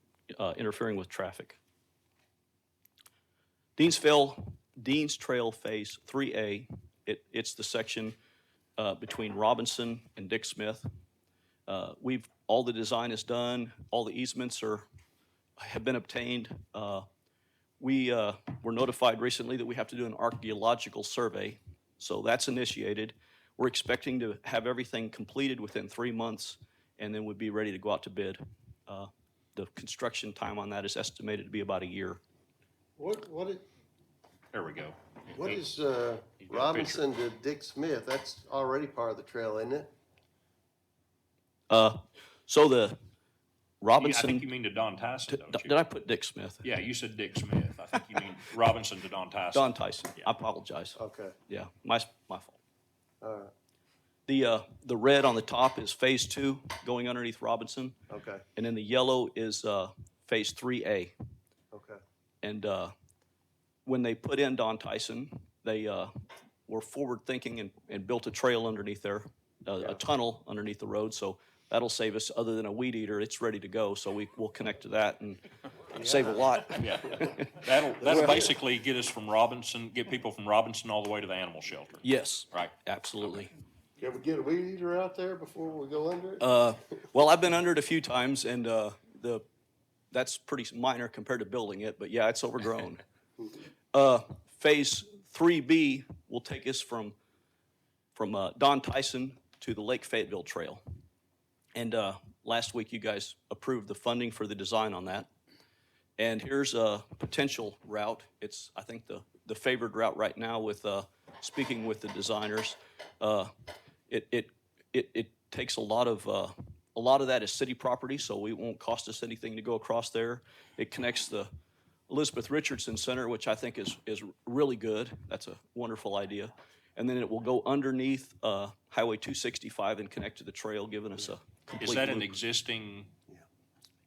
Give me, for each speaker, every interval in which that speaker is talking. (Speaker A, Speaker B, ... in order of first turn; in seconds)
Speaker A: 0.3-1.6, 3.8-8.2, 8.8-10.9, 11.7-14.9, 15.6-17.1, 17.8-32.2, 41.7-43.0, 43.8-44.5, 45.3-46.7, 49.5-52.6, 54.3-58.0, 58.5-61.1, 62.4-62.9, 63.9-66.1, 66.7-78.5, 82.0-83.5, 86.4-89.5, 90.1-93.0, 93.9-97.2, 98.2-100.8, 101.8-105.3, 106.2-113.5, 114.1-121.5, 122.1-132.3
Speaker B: 33.0-33.7, 35.3-39.9, 51.0-51.4, 53.2-53.5, 58.1-58.5, 61.7-62.0, 76.0-76.4, 84.0-86.5
Speaker C: 34.5-35.6, 36.4-37.0, 44.0-45.8, 46.6-50.3, 76.8-82.7, 131.8-133.1